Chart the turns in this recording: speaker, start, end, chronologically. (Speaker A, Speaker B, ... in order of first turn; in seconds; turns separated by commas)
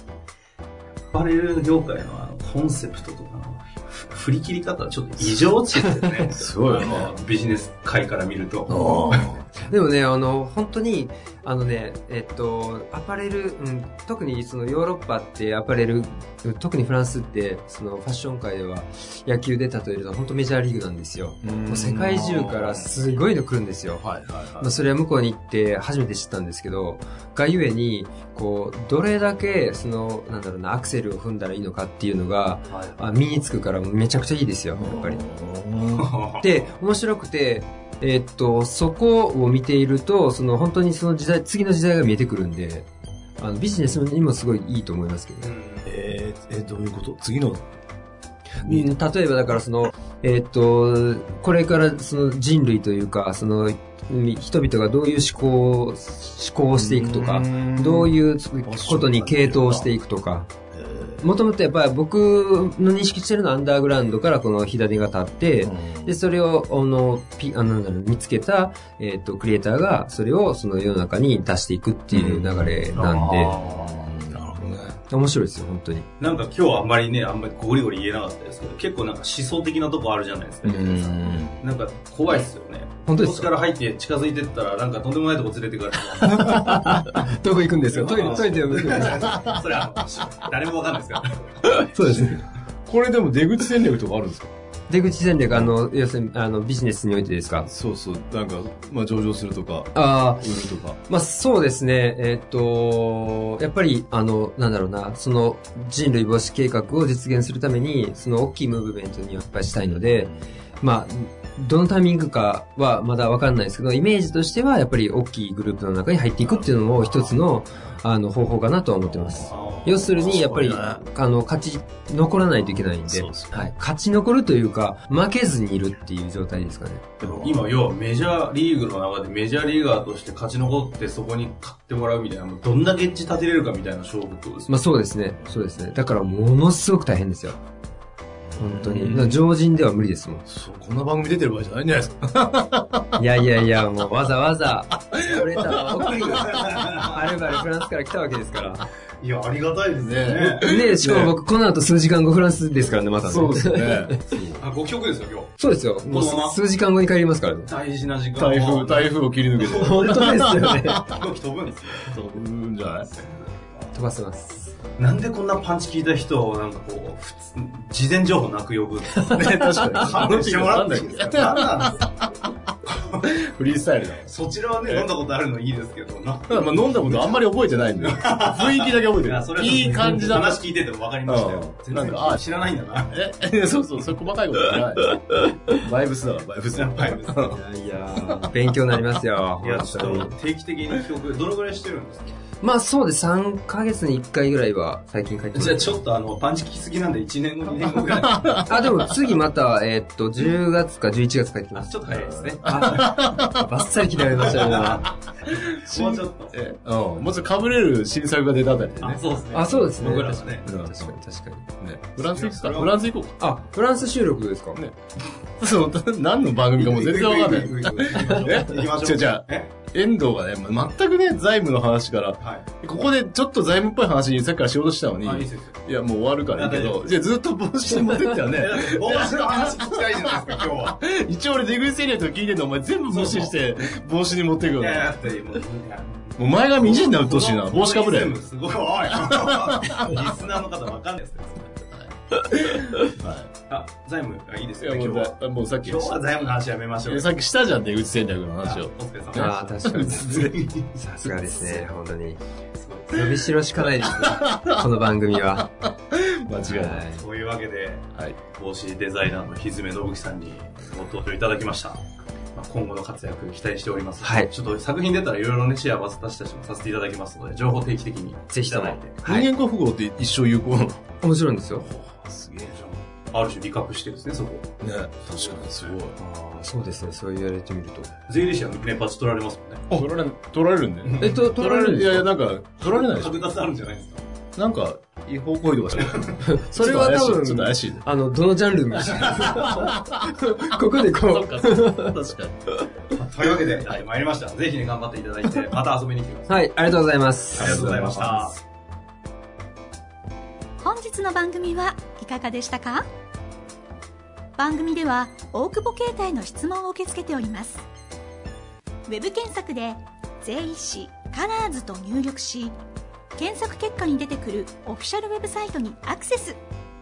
Speaker A: 1.1-9.3, Speaker B: 6.3-7.1, Speaker B: 8.7-9.4, Speaker C: 9.6-24.1, Speaker B: 21.4-22.9, Speaker B: 24.0-24.7, Speaker C: 24.6-35.2, Speaker B: 34.8-36.1, Speaker A: 35.9-36.6, Speaker C: 36.4-42.9, Speaker C: 43.4-45.5, Speaker A: 45.4-45.9, Speaker B: 45.9-47.7, Speaker C: 48.6-60.5, Speaker B: 48.6-48.9, Speaker B: 56.8-59.9, Speaker B: 60.7-61.3, Speaker C: 61.2-73.5, Speaker B: 65.6-66.2, Speaker B: 72.1-75.0, Speaker A: 73.0-74.0, Speaker C: 75.1-76.1, Speaker A: 76.2-87.0, Speaker B: 80.7-81.6, Speaker C: 83.1-83.5, Speaker C: 86.2-89.4, Speaker A: 87.9-91.4, Speaker B: 88.4-89.6, Speaker C: 91.8-92.4, Speaker B: 92.1-94.5, Speaker C: 94.9-97.7, Speaker B: 97.7-101.0, Speaker C: 100.0-100.5, Speaker C: 101.0-127.1, Speaker B: 109.8-110.5, Speaker B: 119.1-121.0, Speaker A: 119.5-120.1, Speaker B: 122.6-123.7, Speaker B: 127.2-127.7, Speaker A: 127.4-134.7, Speaker C: 134.7-137.6, Speaker B: 138.5-139.4, Speaker C: 138.6-140.4, Speaker B: 140.5-143.2, Speaker C: 143.2-148.8, Speaker B: 145.1-147.0, Speaker A: 146.4-147.2, Speaker A: 149.2-150.7, Speaker B: 150.0-151.3, Speaker C: 150.6-154.4, Speaker B: 153.2-154.6, Speaker A: 154.6-156.6, Speaker C: 155.6-157.7, Speaker A: 157.7-162.2, Speaker B: 158.4-161.2, Speaker C: 159.7-161.1, Speaker B: 162.0-163.1, Speaker A: 163.1-163.9, Speaker C: 163.9-164.7, Speaker A: 165.0-172.2, Speaker C: 169.2-169.8, Speaker B: 169.2-172.5, Speaker A: 172.9-173.3, Speaker B: 173.2-174.3, Speaker A: 174.3-183.1, Speaker B: 176.5-180.6, Speaker B: 181.3-182.4, Speaker B: 183.1-187.6, Speaker A: 186.7-187.5, Speaker C: 187.5-190.3, Speaker B: 188.2-188.6, Speaker A: 189.6-192.4, Speaker C: 192.6-196.0, Speaker A: 195.6-198.9, Speaker B: 198.0-199.1, Speaker C: 198.7-202.0, Speaker A: 201.9-203.2, Speaker B: 202.1-203.7, Speaker C: 202.6-205.1, Speaker A: 204.4-206.6, Speaker B: 205.1-211.2, Speaker A: 209.0-210.7, Speaker C: 209.5-211.7, Speaker B: 211.8-213.4, Speaker A: 212.2-213.0, Speaker C: 213.4-214.8, Speaker B: 215.6-235.3, Speaker A: 216.8-219.7, Speaker A: 222.4-222.7, Speaker A: 225.2-225.8, Speaker A: 226.5-227.2, Speaker A: 228.4-231.0, Speaker A: 233.1-233.6, Speaker A: 234.8-241.9, Speaker B: 236.4-238.4, Speaker B: 239.2-240.3, Speaker B: 241.9-243.5, Speaker A: 243.7-247.3, Speaker B: 244.8-246.2, Speaker B: 247.1-250.3, Speaker A: 248.6-250.9, Speaker C: 249.3-252.4, Speaker A: 252.8-253.4, Speaker C: 253.1-255.7, Speaker B: 253.8-257.1, Speaker C: 256.6-257.2, Speaker A: 257.2-262.0, Speaker A: 262.6-269.1, Speaker C: 264.2-264.5, Speaker C: 268.5-269.5, Speaker B: 269.2-271.0, Speaker C: 271.2-271.9, Speaker B: 271.8-272.9, Speaker A: 272.8-276.7, Speaker B: 274.8-276.2, Speaker C: 276.6-278.1, Speaker A: 278.3-279.9, Speaker B: 279.9-283.4, Speaker A: 281.0-281.4, Speaker C: 281.2-282.3, Speaker A: 282.8-284.2, Speaker B: 284.6-288.1, Speaker A: 286.0-286.4, Speaker C: 286.4-292.2, Speaker A: 289.3-289.8, Speaker B: 289.3-292.7, Speaker A: 293.1-296.7, Speaker C: 296.5-297.9, Speaker A: 297.5-298.6, Speaker B: 297.6-298.5, Speaker D: 300.8-303.1, Speaker D: 304.6-307.9, Speaker D: 309.1-312.8, Speaker D: 313.4-316.6